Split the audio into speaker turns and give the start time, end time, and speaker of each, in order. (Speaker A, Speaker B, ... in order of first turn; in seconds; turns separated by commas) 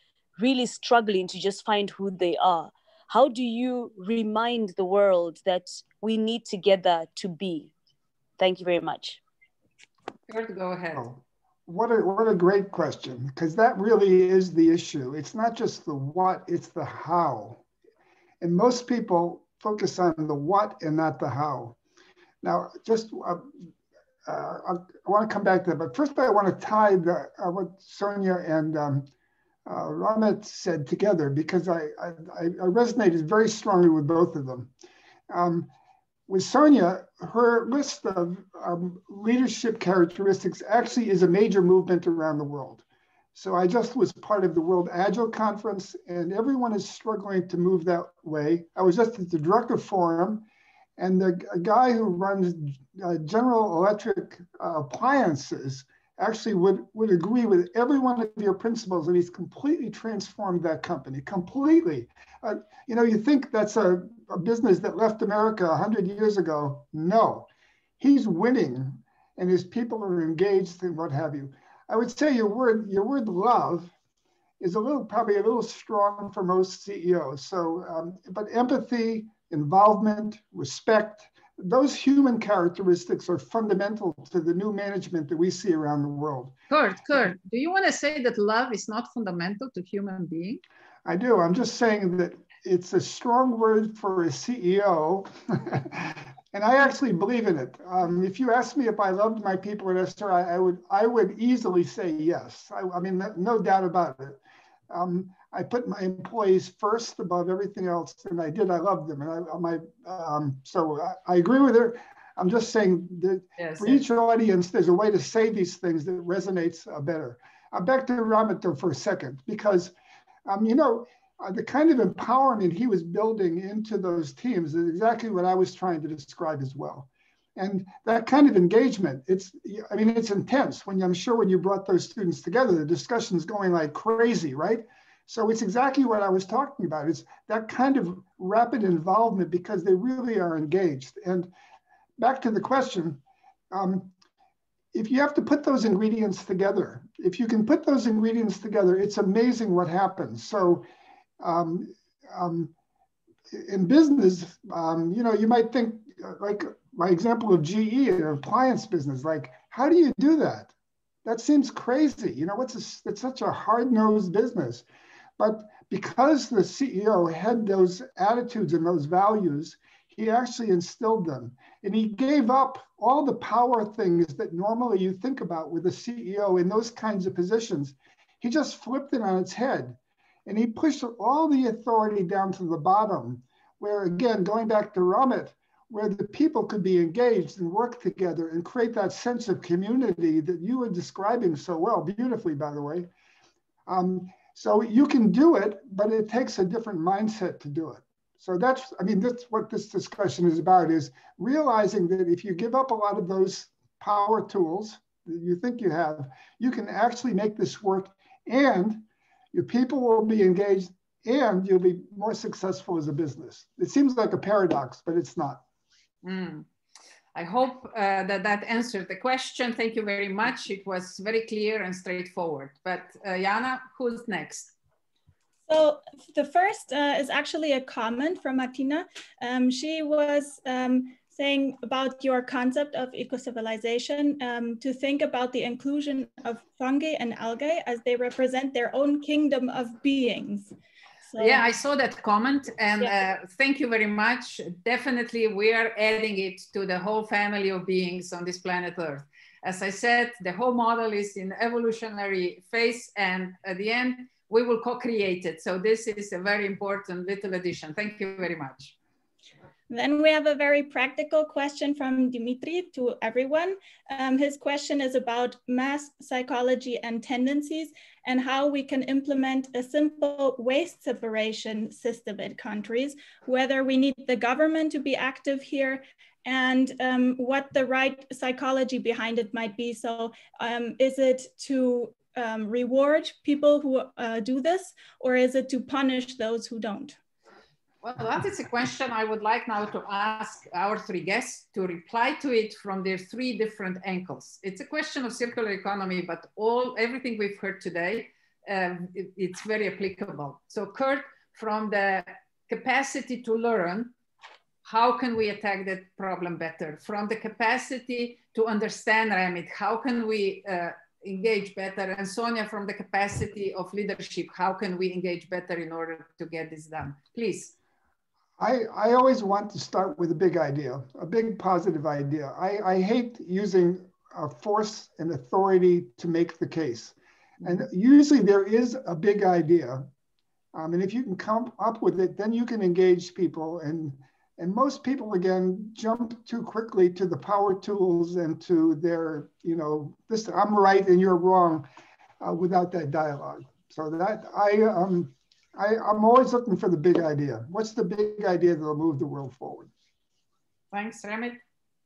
Speaker A: 0.4-7.7, Speaker A: 8.4-9.2, Speaker B: 10.3-11.1, Speaker C: 11.0-17.6, Speaker C: 18.4-21.8, Speaker C: 22.4-23.5, Speaker C: 24.3-29.1, Speaker C: 29.7-34.7, Speaker C: 35.3-35.7, Speaker C: 36.3-42.8, Speaker C: 43.4-50.5, Speaker C: 51.0-67.5, Speaker C: 68.0-73.9, Speaker C: 74.6-86.5, Speaker B: 86.7-90.6, Speaker C: 91.0-104.4, Speaker C: 104.9-119.9, Speaker B: 113.6-114.0, Speaker C: 120.5-141.5, Speaker C: 142.2-144.1, Speaker C: 144.9-150.9, Speaker C: 151.4-152.7, Speaker C: 153.5-160.7, Speaker C: 161.2-164.8, Speaker C: 165.4-193.1, Speaker C: 193.9-215.6, Speaker B: 216.2-216.7, Speaker B: 217.3-224.7, Speaker D: 225.7-240.7, Speaker D: 241.3-241.6, Speaker B: 241.4-258.9, Speaker D: 259.9-287.2, Speaker B: 288.0-304.1, Speaker B: 304.9-317.7, Speaker C: 318.6-330.1, Speaker C: 330.7-341.9, Speaker C: 342.4-349.9, Speaker B: 350.9-351.6